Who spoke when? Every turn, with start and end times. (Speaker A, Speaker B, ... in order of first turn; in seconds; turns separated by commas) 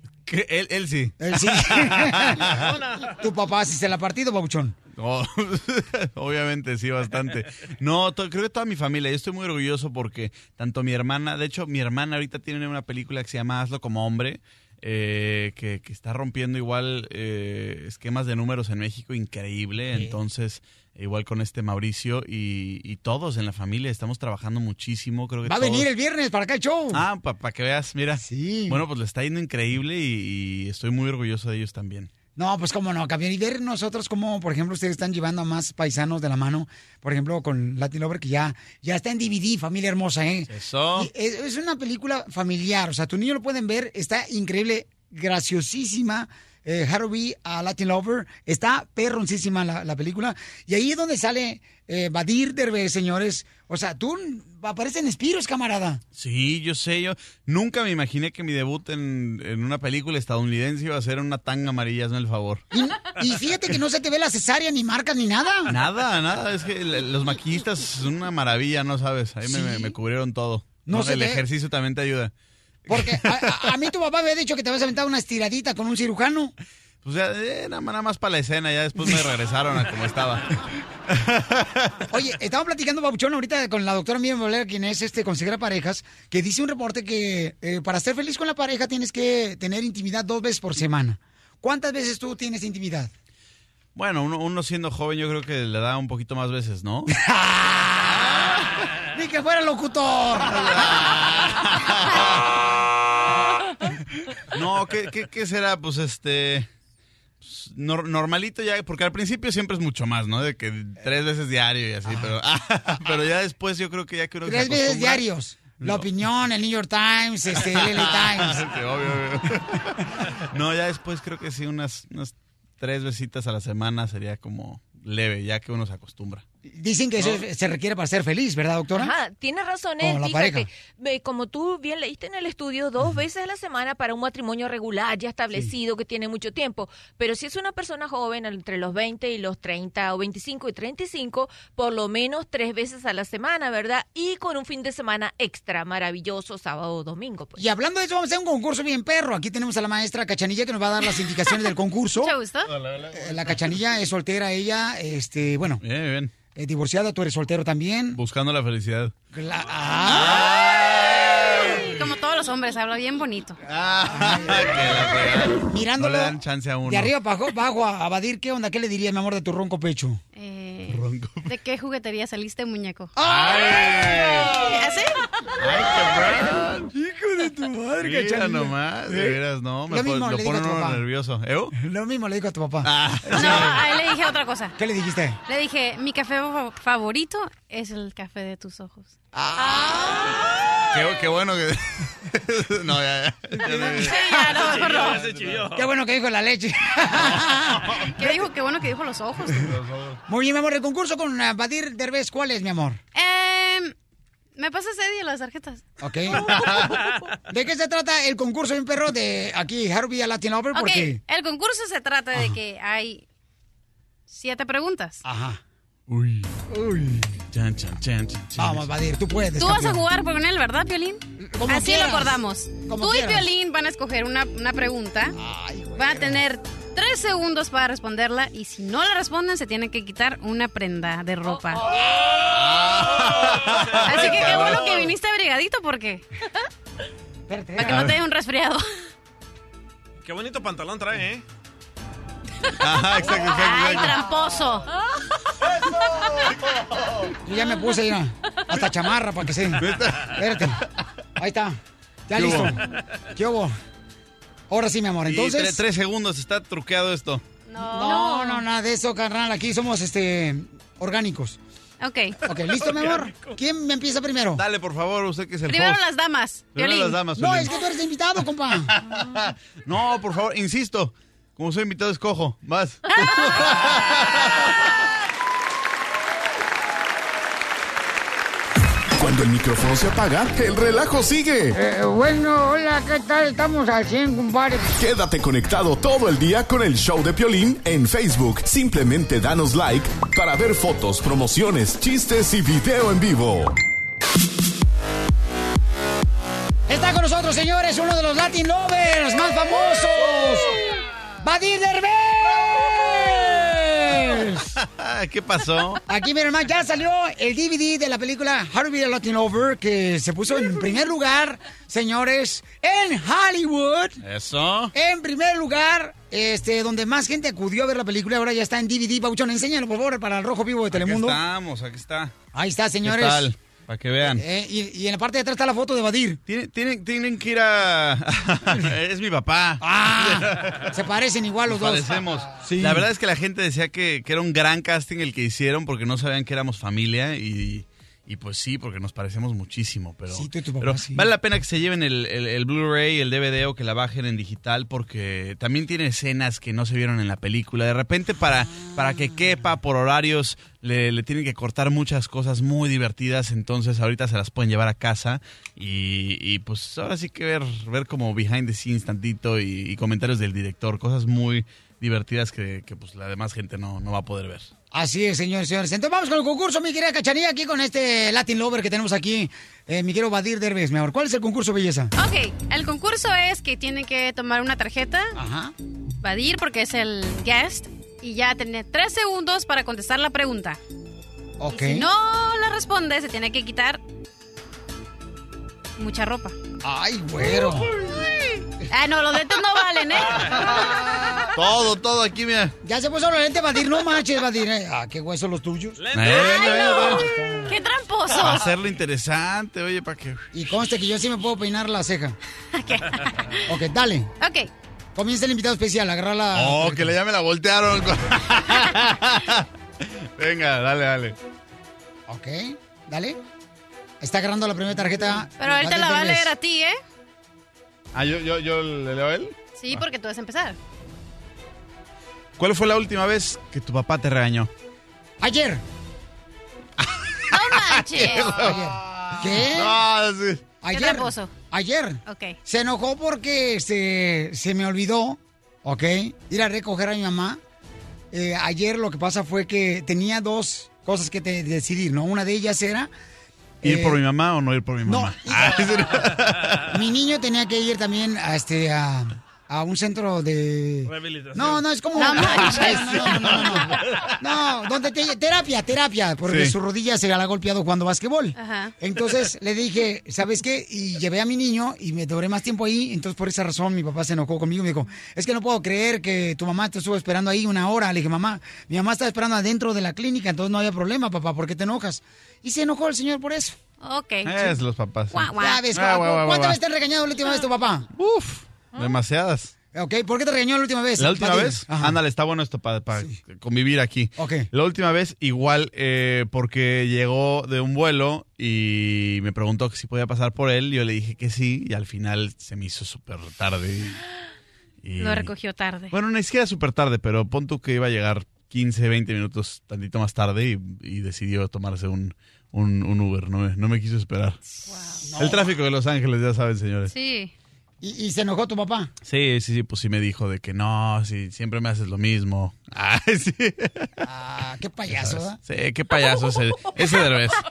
Speaker A: 0.3-2.6, Speaker B: 1.2-2.6, Speaker C: 2.5-3.1, Speaker B: 3.1-4.8, Speaker A: 5.0-25.9, Speaker B: 19.9-20.1, Speaker B: 25.4-27.0, Speaker A: 26.9-32.1, Speaker B: 28.2-28.8, Speaker B: 32.4-56.0, Speaker A: 40.5-41.1, Speaker A: 56.1-62.6, Speaker B: 62.7-65.7, Speaker A: 65.7-72.3, Speaker B: 69.5-69.9, Speaker B: 70.9-71.4, Speaker B: 72.9-76.5, Speaker A: 72.9-73.6, Speaker A: 77.0-80.5, Speaker A: 81.1-82.0, Speaker B: 82.1-93.1, Speaker A: 94.0-97.1, Speaker B: 97.1-98.5, Speaker A: 98.2-98.7, Speaker B: 99.1-100.7, Speaker A: 100.4-102.5, Speaker A: 104.5-106.7, Speaker A: 107.4-115.2, Speaker B: 112.1-112.3, Speaker B: 114.5-118.6, Speaker A: 115.8-116.1, Speaker A: 117.6-119.9, Speaker A: 120.5-126.4, Speaker B: 126.7-129.1, Speaker D: 128.9-147.7, Speaker B: 130.0-130.7, Speaker B: 147.6-152.3, Speaker E: 152.2-152.7, Speaker A: 152.8-153.7, Speaker B: 153.1-155.8, Speaker A: 155.8-156.3, Speaker B: 156.5-158.2, Speaker A: 158.2-159.2, Speaker B: 159.3-160.6, Speaker A: 160.0-162.0, Speaker E: 161.6-163.6, Speaker A: 163.7-167.1, Speaker B: 164.1-164.9, Speaker B: 165.4-166.3, Speaker B: 166.9-170.2, Speaker E: 170.3-173.1, Speaker A: 170.9-171.5, Speaker B: 173.2-174.6, Speaker A: 173.2-174.7, Speaker E: 174.7-175.2, Speaker A: 175.6-176.9, Speaker B: 176.9-179.4, Speaker A: 178.0-181.7, Speaker B: 179.9-181.0, Speaker B: 181.8-183.8, Speaker A: 182.8-183.7, Speaker E: 183.3-184.8, Speaker B: 184.8-185.4, Speaker E: 185.5-190.4, Speaker B: 189.5-190.2, Speaker A: 190.9-194.1, Speaker B: 193.6-194.2, Speaker E: 193.7-195.2, Speaker C: 194.6-195.8, Speaker B: 195.7-198.3, Speaker E: 198.0-199.7, Speaker A: 199.7-200.2, Speaker B: 200.3-203.0, Speaker E: 203.2-203.9, Speaker E: 204.6-205.8, Speaker B: 206.0-206.9, Speaker B: 207.5-211.2, Speaker E: 210.7-213.2, Speaker E: 214.3-215.2, Speaker B: 215.2-215.6, Speaker A: 216.1-216.5, Speaker B: 216.7-217.3, Speaker A: 217.5-218.9, Speaker B: 218.6-220.0, Speaker E: 219.6-225.4, Speaker B: 221.4-223.5, Speaker B: 225.4-226.4, Speaker E: 225.9-231.9, Speaker A: 232.5-235.1, Speaker E: 234.1-236.2, Speaker B: 237.5-238.0, Speaker E: 237.8-238.8, Speaker A: 237.9-238.2, Speaker C: 240.2-241.4, Speaker A: 242.8-244.2, Speaker E: 243.2-244.9, Speaker B: 247.4-250.8, Speaker A: 249.8-250.3, Speaker B: 251.4-252.8, Speaker A: 252.3-252.8, Speaker B: 253.3-253.7, Speaker B: 254.7-255.8, Speaker A: 255.3-257.4, Speaker E: 257.7-258.6, Speaker B: 257.9-261.6, Speaker E: 262.0-262.4, Speaker B: 262.4-264.6, Speaker C: 262.9-263.3, Speaker A: 264.6-266.0, Speaker E: 265.7-267.2, Speaker A: 266.8-267.7, Speaker B: 267.4-268.9, Speaker A: 269.0-274.7, Speaker F: 279.2-281.8, Speaker B: 281.7-284.9, Speaker F: 285.0-293.7, Speaker B: 296.9-300.8, Speaker B: 301.4-304.7, Speaker A: 304.8-306.0, Speaker B: 306.1-314.2, Speaker A: 314.2-314.9, Speaker B: 314.9-321.4, Speaker A: 320.9-322.4, Speaker B: 322.5-323.5, Speaker A: 323.0-324.4, Speaker B: 324.2-326.4, Speaker A: 326.5-330.9, Speaker B: 329.8-333.1, Speaker A: 331.7-364.7, Speaker B: 340.3-341.3, Speaker B: 364.9-372.1, Speaker E: 372.1-375.3, Speaker B: 375.4-375.7, Speaker E: 376.2-380.8, Speaker B: 381.6-382.1, Speaker E: 381.7-384.0, Speaker E: 386.0-386.6, Speaker B: 386.8-387.9, Speaker E: 388.9-391.3, Speaker A: 391.5-392.7, Speaker B: 392.8-397.7, Speaker C: 396.0-396.5, Speaker A: 396.2-397.2, Speaker E: 396.3-398.7, Speaker A: 398.4-400.5, Speaker B: 400.5-402.4, Speaker E: 402.8-403.6, Speaker B: 403.7-404.3, Speaker E: 404.4-404.7, Speaker B: 405.1-407.1, Speaker A: 406.5-411.4, Speaker B: 412.3-413.4, Speaker B: 414.2-416.5, Speaker E: 415.6-417.0, Speaker A: 418.1-420.0, Speaker E: 419.7-420.8, Speaker A: 422.6-424.7, Speaker B: 425.4-425.8, Speaker A: 427.0-430.7, Speaker E: 427.5-428.8, Speaker B: 428.5-430.0, Speaker B: 430.8-437.6, Speaker E: 430.9-431.5, Speaker E: 432.3-432.6, Speaker B: 438.3-443.1, Speaker B: 443.8-444.2, Speaker A: 443.8-446.8, Speaker B: 445.0-445.9, Speaker B: 446.9-473.8, Speaker C: 451.1-451.8, Speaker E: 452.1-453.8, Speaker A: 456.5-456.7, Speaker E: 458.6-458.9, Speaker E: 474.0-474.8, Speaker A: 474.4-476.8, Speaker E: 475.3-475.9, Speaker B: 475.6-478.1, Speaker A: 478.1-479.7, Speaker B: 479.9-482.2, Speaker A: 481.2-494.2, Speaker B: 484.4-484.7, Speaker A: 495.0-495.5, Speaker E: 495.2-496.1, Speaker A: 496.1-504.6, Speaker E: 504.8-505.3, Speaker B: 505.2-505.7, Speaker A: 505.4-507.1, Speaker E: 507.1-507.5, Speaker B: 508.0-509.1, Speaker A: 509.2-514.1, Speaker B: 514.2-515.6, Speaker A: 515.1-517.6, Speaker E: 516.2-517.5